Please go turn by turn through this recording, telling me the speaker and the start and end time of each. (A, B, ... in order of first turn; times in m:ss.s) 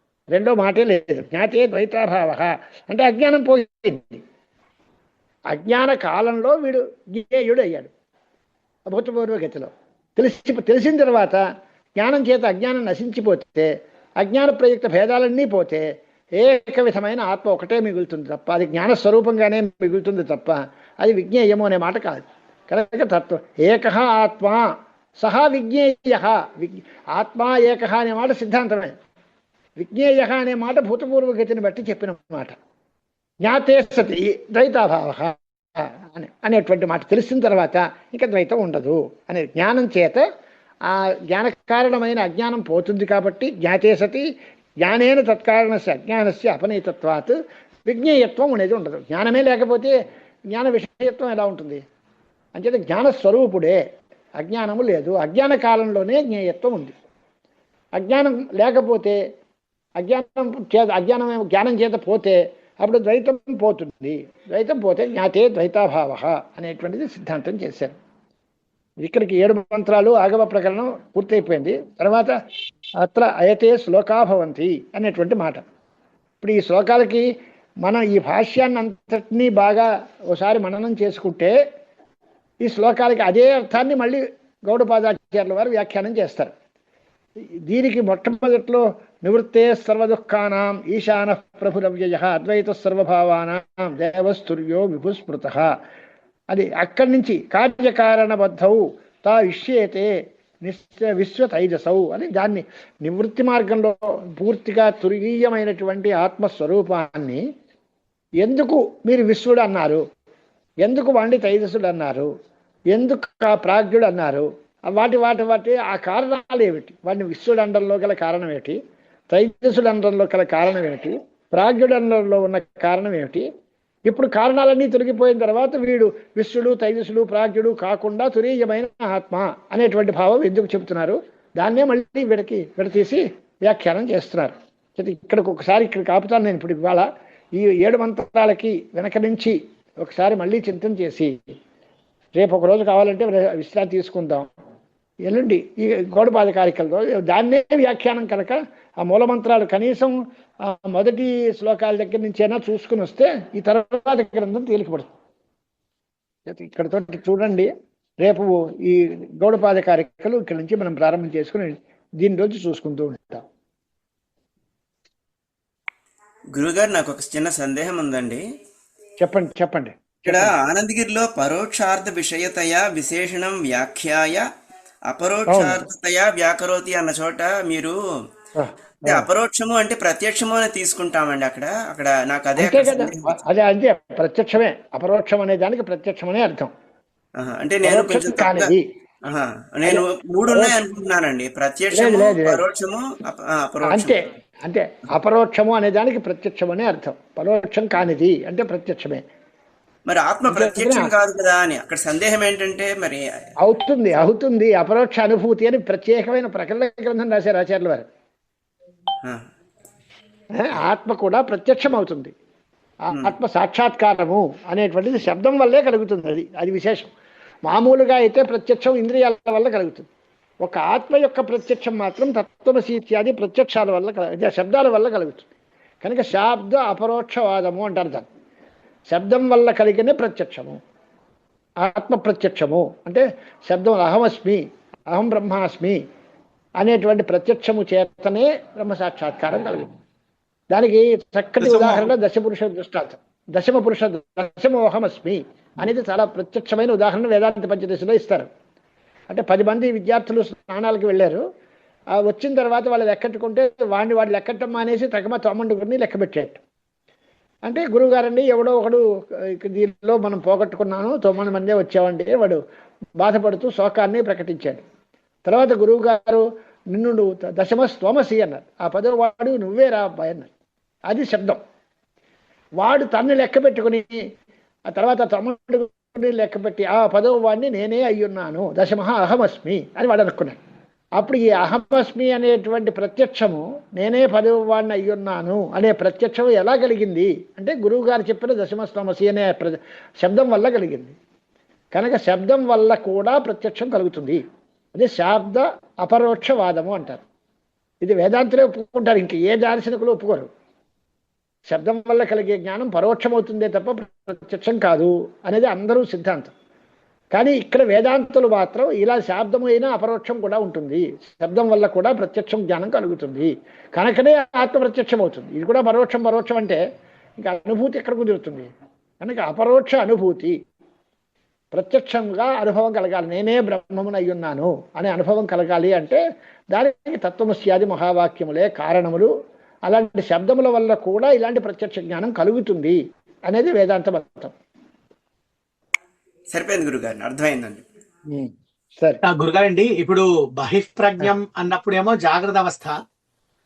0:00.3-0:04.2 A
0:05.5-0:07.9 A
0:08.9-0:11.4 A
0:12.0-0:13.7 A
0:14.2-0:15.9 A
0:16.4-0:28.9 A
0:29.8-0:32.6 A
0:33.4-0:40.3 A
0:40.8-0:44.3 A
0:44.8-0:49.9 A
0:50.5-0:51.8 A
0:52.6-0:53.8 A
0:54.4-0:56.9 A
0:58.0-0:59.2 A
1:00.0-1:07.9 A
1:09.0-1:12.4 A
1:13.0-1:15.6 A
1:16.4-1:17.3 A
1:17.8-1:21.5 A
1:22.6-1:26.5 A
1:27.7-1:35.7 A
1:36.5-1:40.1 A
1:40.6-1:47.4 A
1:48.4-1:50.0 A
1:50.8-1:52.3 A
1:52.9-1:58.8 A
1:59.3-2:03.4 A
2:04.1-2:21.4 A
2:22.4-2:24.5 A
2:25.3-2:35.1 A
2:36.5-2:43.4 A
2:46.5-2:48.4 B
2:49.2-2:50.5 A
2:50.3-2:54.4 B
2:55.1-2:57.9 B
2:55.5-2:55.8 A
2:58.6-2:59.2 A
2:59.0-3:03.4 B
3:02.6-3:06.7 A
3:07.4-3:08.7 B
3:07.8-3:08.9 A
3:09.2-3:14.2 B
3:09.9-3:10.8 A
3:11.9-3:12.6 A
3:13.9-3:19.2 A
3:20.1-3:23.2 B
3:20.5-3:21.1 A
3:23.6-3:28.1 A
3:30.6-3:32.3 A
3:33.1-3:37.1 A
3:37.6-3:40.1 A
3:40.6-3:45.5 A
3:46.0-3:48.3 A
3:49.1-3:50.8 A
3:51.8-3:56.0 A
3:56.8-3:59.9 A
4:00.7-4:08.5 A
4:01.6-4:02.1 C
4:09.3-4:11.4 A
4:12.2-4:16.6 A
4:17.6-4:22.6 A
4:23.2-4:24.8 A
4:25.4-4:30.5 A
4:31.1-4:31.6 A
4:32.8-4:34.2 A
4:34.9-4:40.6 A
4:41.2-4:51.2 A
4:51.9-4:54.4 A
4:54.9-4:57.2 A
4:58.0-5:00.5 A
5:01.7-5:06.5 A
5:07.3-5:16.8 A
5:17.4-5:18.7 A
5:19.2-5:20.6 A
5:21.7-5:26.2 A
5:26.7-5:29.3 A
5:29.9-5:34.5 A
5:36.5-5:37.8 B
5:38.3-5:39.2 A
5:39.2-5:42.9 C